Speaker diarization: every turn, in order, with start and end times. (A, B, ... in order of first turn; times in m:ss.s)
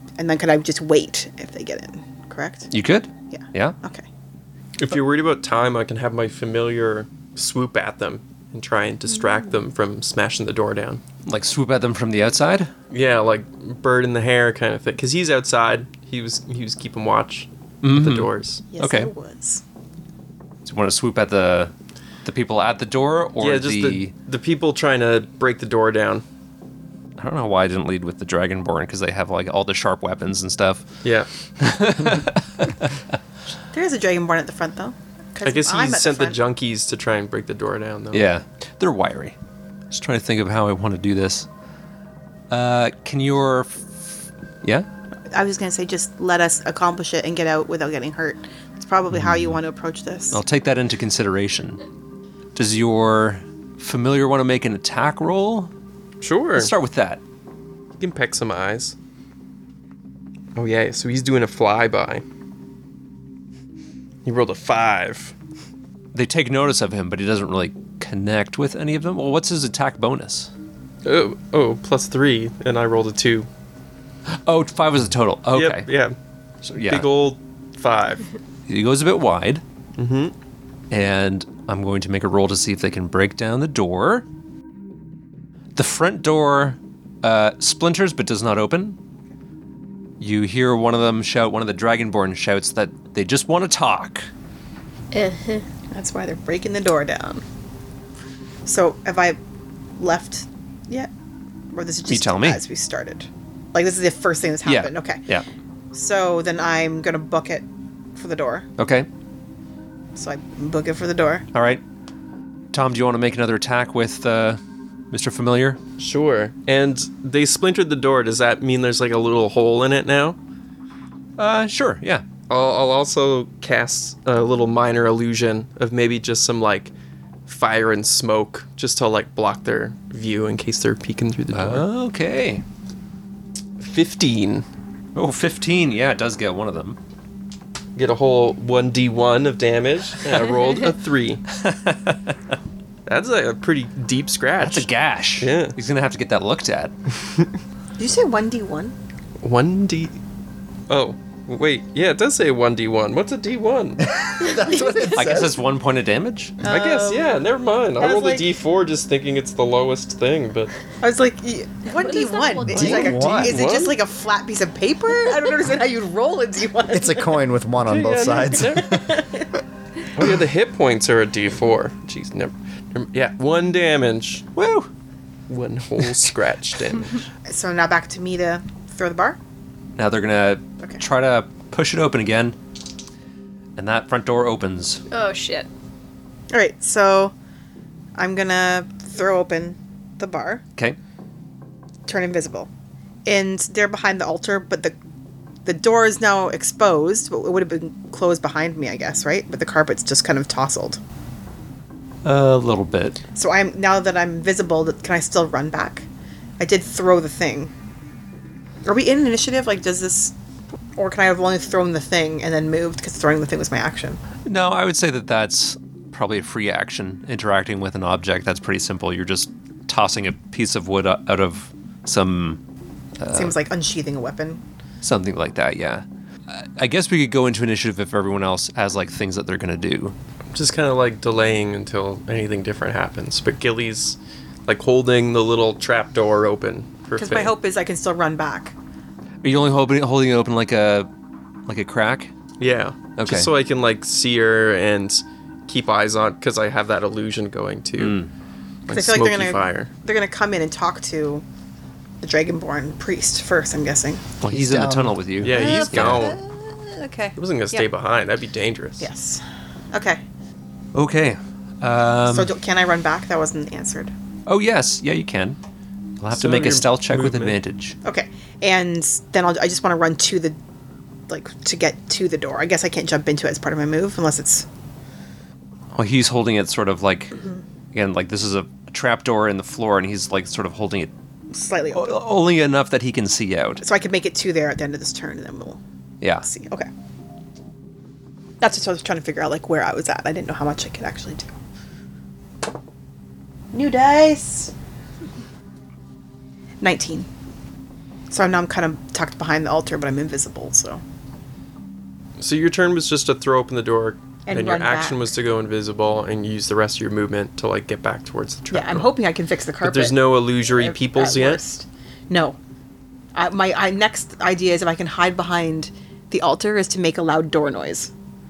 0:00.2-0:02.7 A
0:02.7-0:03.8 B
0:03.3-0:04.0 A
0:04.8-0:11.0 C
0:11.3-0:12.7 B
0:12.9-0:18.6 C
0:17.8-0:19.1 B
0:18.7-0:19.6 A
0:20.6-0:21.7 B
0:22.2-0:24.1 B
0:23.4-0:26.2 C
0:27.2-0:31.0 B
0:31.0-0:31.3 C
0:31.6-0:32.9 B
0:33.7-0:36.4 A
0:35.4-0:38.3 C
0:38.1-0:39.4 B
0:39.9-0:41.5 B
0:42.5-0:44.9 B
0:45.3-0:50.4 A
0:50.3-0:51.8 B
0:52.6-0:55.7 B
0:56.2-0:56.7 C
0:56.6-0:57.2 B
0:58.0-0:58.9 C
1:00.6-1:02.2 C
1:04.2-1:05.4 C
1:06.1-1:10.5 B
1:11.0-1:13.5 C
1:14.4-1:15.9 B
1:15.5-1:16.2 C
1:16.6-1:17.1 B
1:16.8-1:18.3 C
1:18.7-1:19.6 B
1:20.0-1:20.3 C
1:20.9-1:24.3 B
1:25.8-1:29.0 B
1:30.2-1:34.3 B
1:35.1-1:35.7 D
1:35.9-1:37.4 A
1:38.6-1:39.4 A
1:40.0-1:41.1 A
1:41.7-1:45.2 A
1:42.1-1:42.6 B
1:44.6-1:45.4 B
1:45.9-1:48.7 A
1:48.8-1:49.1 B
1:50.2-1:51.5 A
1:51.5-1:51.8 B
1:52.7-1:54.6 B
1:55.1-1:55.8 B
1:56.0-2:00.4 C
2:01.4-2:02.2 B
2:02.5-2:06.9 C
2:07.5-2:11.9 C
2:11.5-2:12.6 B
2:13.8-2:14.7 C
2:15.2-2:17.0 B
2:18.0-2:21.4 C
2:21.6-2:22.3 B
2:23.1-2:24.9 C
2:24.6-2:26.9 B
2:25.4-2:25.8 C
2:28.0-2:29.0 A
2:29.4-2:30.2 C
2:30.9-2:34.1 C
2:34.0-2:35.6 E
2:34.7-2:35.4 A
2:35.1-2:36.6 B
2:36.6-2:37.5 A
2:36.6-2:40.7 C
2:38.0-2:38.6 A
2:41.0-2:47.4 A
2:41.9-2:43.5 D
2:42.7-2:43.6 E
2:43.4-2:44.0 C
2:46.9-2:49.3 E
2:47.8-2:49.0 C
2:48.9-2:49.5 A
2:50.2-2:54.5 C
2:54.6-2:54.9 B
2:55.5-2:57.2 C
2:57.5-2:59.4 A
3:00.0-3:02.6 B
3:03.8-3:05.0 B
3:05.1-3:05.7 D
3:06.5-3:07.3 A
3:08.2-3:10.6 A
3:12.1-3:12.7 A
3:13.2-3:15.0 A
3:15.6-3:21.0 A
3:22.2-3:23.2 B
3:23.4-3:26.0 A
3:26.6-3:27.7 A
3:28.8-3:30.4 A
3:31.0-3:34.2 A
3:34.5-3:42.6 B
3:43.2-3:43.6 B
3:43.3-3:44.6 A
3:45.0-3:50.2 B
3:50.5-3:57.5 C
3:57.2-3:58.8 A
3:59.4-4:01.1 B
4:01.7-4:02.3 B
4:02.6-4:08.2 C
4:03.2-4:03.5 B
4:08.0-4:08.3 B
4:08.9-4:09.9 C
4:08.9-4:11.4 A
4:12.2-4:14.2 A
4:14.4-4:16.3 B
4:14.5-4:16.1 E
4:15.4-4:16.4 C
4:15.5-4:17.9 A
4:17.4-4:19.1 C
4:19.0-4:20.2 A
4:21.0-4:22.5 B
4:22.3-4:24.1 A
4:24.5-4:25.6 B
4:26.2-4:28.0 B
4:26.4-4:27.6 C
4:28.0-4:30.6 A
4:31.3-4:34.7 A
4:35.9-4:37.4 B
4:37.9-4:41.1 B
4:41.5-4:42.2 A
4:41.9-4:43.8 B
4:43.8-4:45.8 A
4:46.2-4:46.5 B
4:46.4-4:46.9 A
4:48.6-4:51.5 A
4:53.7-4:54.7 A
4:56.8-4:57.3 A
4:58.3-5:01.0 A
5:02.4-5:09.1 C
5:04.5-5:05.3 A
5:08.7-5:12.6 A
5:09.8-5:11.6 C
5:13.4-5:18.1 A